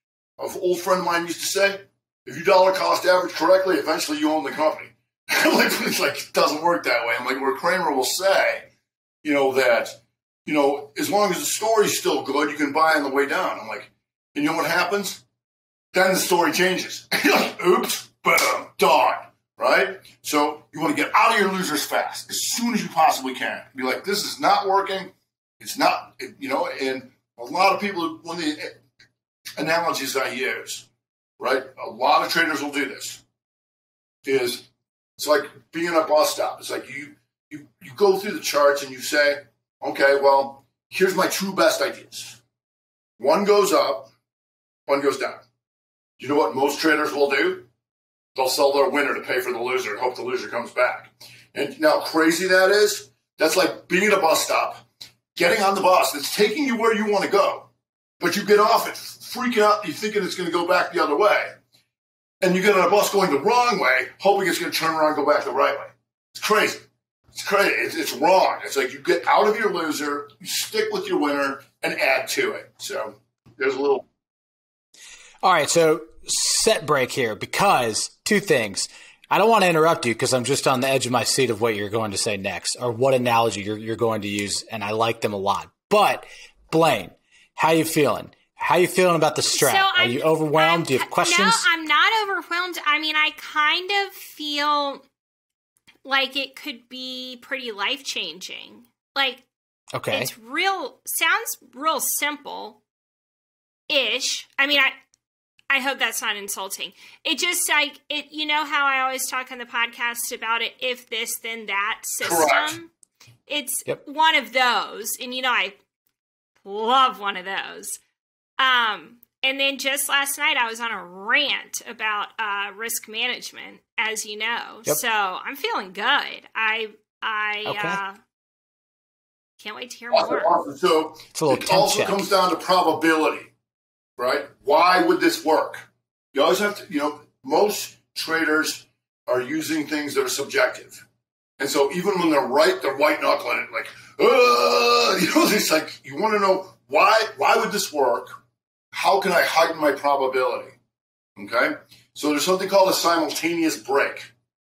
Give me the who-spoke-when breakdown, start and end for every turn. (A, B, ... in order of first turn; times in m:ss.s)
0:00.4-0:08.7 A
0:09.2-0:15.2 A
0:15.9-0:28.8 A
0:29.6-0:30.9 A
0:31.4-0:33.2 A
0:34.2-0:42.4 A
0:43.2-0:44.1 A
0:44.9-0:45.4 A
0:46.2-0:47.7 A
0:48.4-0:57.7 A
0:58.2-1:01.5 A
1:02.4-1:14.1 A
1:15.4-1:31.7 B
1:29.5-1:35.0 C
1:36.0-1:39.4 C
1:39.9-1:40.3 B
1:40.1-1:42.8 C
1:43.9-1:44.9 C
1:45.7-1:52.9 C
1:52.2-1:52.8 A
1:53.5-1:55.8 C
1:56.6-1:58.0 C
1:58.6-2:08.2 C
2:07.6-2:08.0 B
2:09.6-2:10.6 C
2:10.1-2:13.5 A
2:11.4-2:12.3 B
2:14.2-2:21.0 A
2:21.6-2:28.3 A
2:28.9-2:30.8 A
2:31.4-2:34.3 A